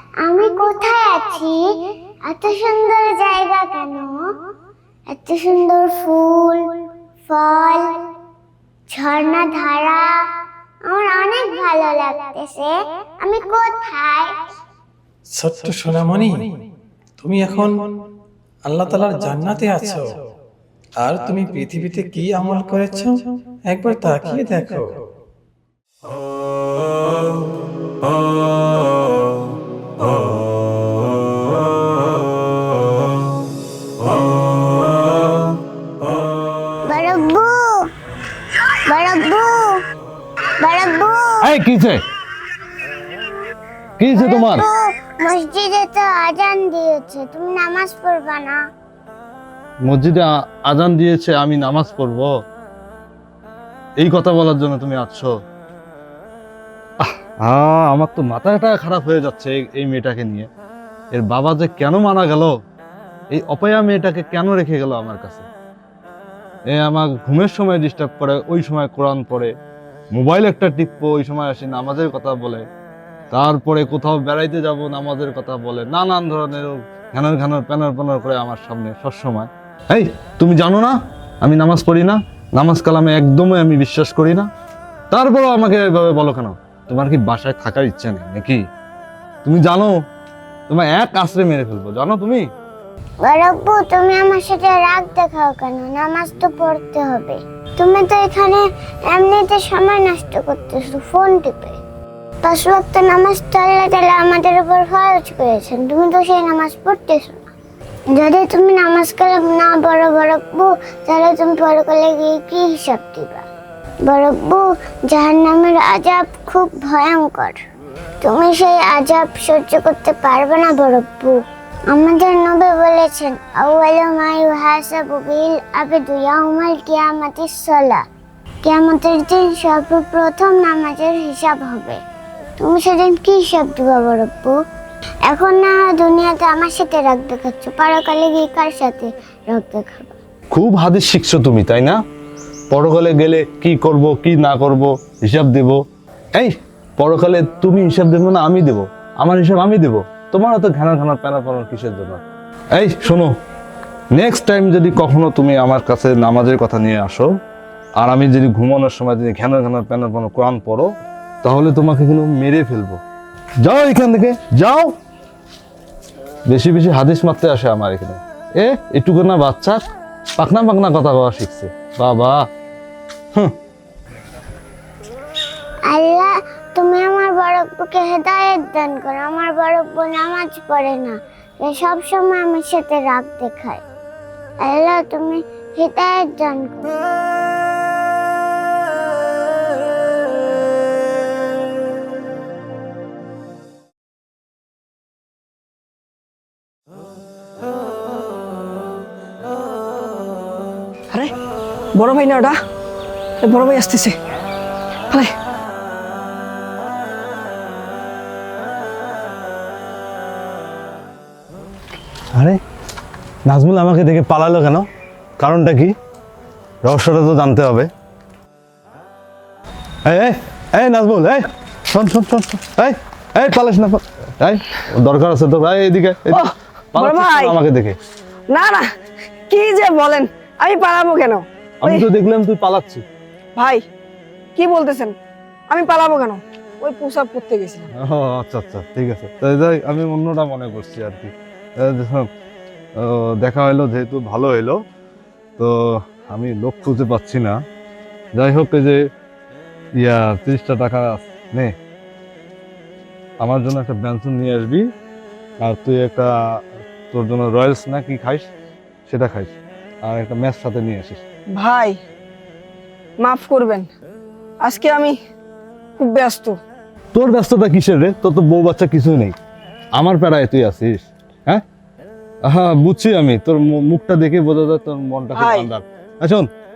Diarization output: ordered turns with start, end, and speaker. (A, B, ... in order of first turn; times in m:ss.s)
0:00.2-0:04.3 A
0:05.1-0:08.0 A
0:08.9-0:10.3 A
0:10.8-0:14.4 A
0:15.3-0:16.5 B
0:17.2-0:17.9 B
0:18.6-0:20.2 B
0:21.0-0:25.0 B
0:36.8-0:37.9 A
0:38.8-0:39.8 A
0:40.5-0:41.5 A
0:41.4-0:42.0 C
0:44.0-0:44.6 C
0:44.1-0:48.6 A
0:49.8-0:52.3 C
0:54.0-0:55.3 C
0:57.0-1:00.5 C
1:01.1-1:02.6 C
1:03.3-1:05.5 C
1:06.7-1:09.5 C
1:10.1-1:12.6 C
1:13.3-1:24.5 C
1:25.1-1:28.6 C
1:29.4-1:30.0 C
1:30.7-1:32.5 C
1:33.2-1:41.8 A
1:42.4-1:47.5 A
1:48.1-1:53.4 A
1:54.0-1:57.6 A
1:58.2-2:08.0 A
2:08.6-2:12.0 A
2:12.6-2:14.6 A
2:15.2-2:20.2 A
2:20.5-2:22.0 C
2:22.7-2:25.8 C
2:26.3-2:32.2 C
2:32.7-2:33.3 C
2:34.1-2:37.3 C
2:38.0-2:40.9 C
2:41.4-2:43.0 C
2:43.6-2:44.9 C
2:46.5-2:49.8 C
2:50.4-2:52.4 C
2:55.9-3:03.8 A
3:04.6-3:07.0 A
3:21.9-3:22.6 D
3:23.4-3:24.2 D
3:32.3-3:32.6 C
3:33.4-3:34.9 C
3:35.4-3:35.9 C
3:36.8-3:37.9 C
3:40.0-3:48.0 C
3:46.3-3:47.5 D
3:48.5-3:48.8 D
3:49.5-3:52.0 D
3:51.8-3:53.0 C
3:53.6-3:53.8 D
3:54.6-3:55.1 D
3:55.7-3:57.9 D
3:57.9-4:02.3 C
4:03.0-4:04.8 C
4:05.6-4:07.6 C
4:08.3-4:09.0 C
4:10.0-4:11.7 C
4:13.4-4:14.9 C
4:15.6-4:18.5 C
4:19.1-4:21.2 C
4:21.5-4:22.0 D
4:23.2-4:23.9 D
4:24.6-4:25.1 D
4:26.0-4:26.6 D
4:27.1-4:29.3 C
4:29.9-4:31.6 C
4:32.4-4:36.5 C
4:35.4-4:35.7 D